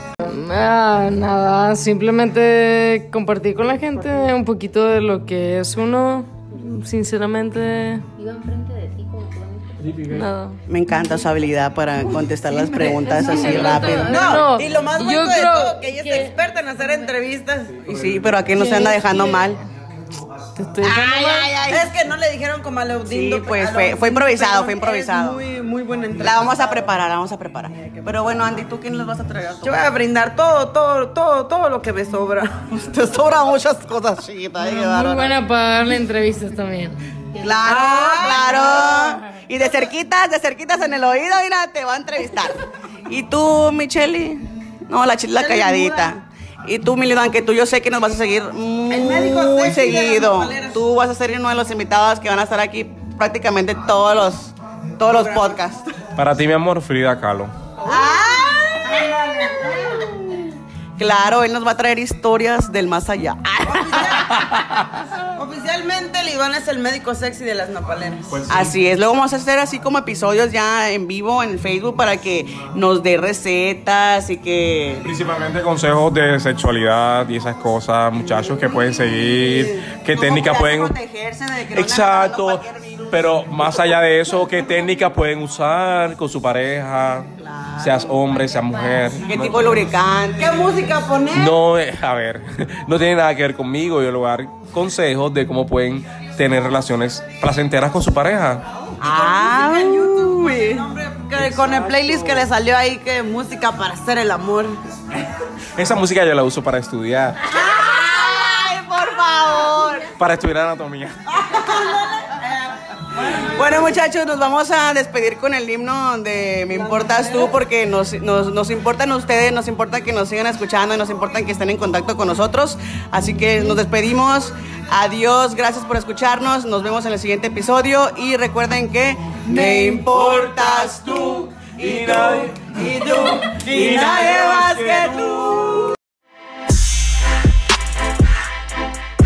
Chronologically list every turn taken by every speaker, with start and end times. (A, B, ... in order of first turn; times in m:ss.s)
0:00.2-0:08.1 A
0:08.2-0:10.2 B
0:09.8-0:10.2 C
0:10.1-0:10.6 A
0:10.7-0:14.4 D
0:12.5-0:17.8 E
0:13.0-0:16.4 A
0:17.7-0:18.4 C
0:17.9-0:19.6 D
0:18.5-0:19.5 A
0:20.6-0:21.5 A
0:20.8-0:21.9 D
0:21.7-0:26.8 E
0:23.1-0:25.4 D
0:26.2-0:29.8 D
0:29.6-0:32.6 E
0:32.7-0:35.4 D
0:34.6-0:37.0 A
0:37.4-0:55.9 D
0:37.6-0:39.2 E
0:45.4-0:46.1 E
0:48.9-0:50.8 E
0:55.1-0:55.6 E
0:56.2-0:57.5 C
0:57.8-1:00.1 E
0:57.8-0:59.1 D
1:00.0-1:04.9 D
1:03.7-1:04.4 E
1:05.4-1:08.4 E
1:08.3-1:08.8 C
1:08.5-1:15.0 D
1:15.0-1:21.0 C
1:19.9-1:23.7 D
1:21.7-1:29.8 C
1:27.6-1:28.1 D
1:28.4-1:29.0 B
1:29.2-1:30.8 D
1:30.4-1:31.6 E
1:31.3-1:38.6 C
1:39.0-1:40.8 D
1:39.0-1:44.8 E
1:41.4-1:42.5 C
1:45.8-1:47.5 C
1:47.5-1:50.1 D
1:50.2-1:51.2 C
1:51.3-1:54.0 E
1:53.3-2:16.0 D
1:56.7-1:57.6 E
2:09.5-2:10.1 E
2:10.0-2:15.9 C
2:13.1-2:13.9 E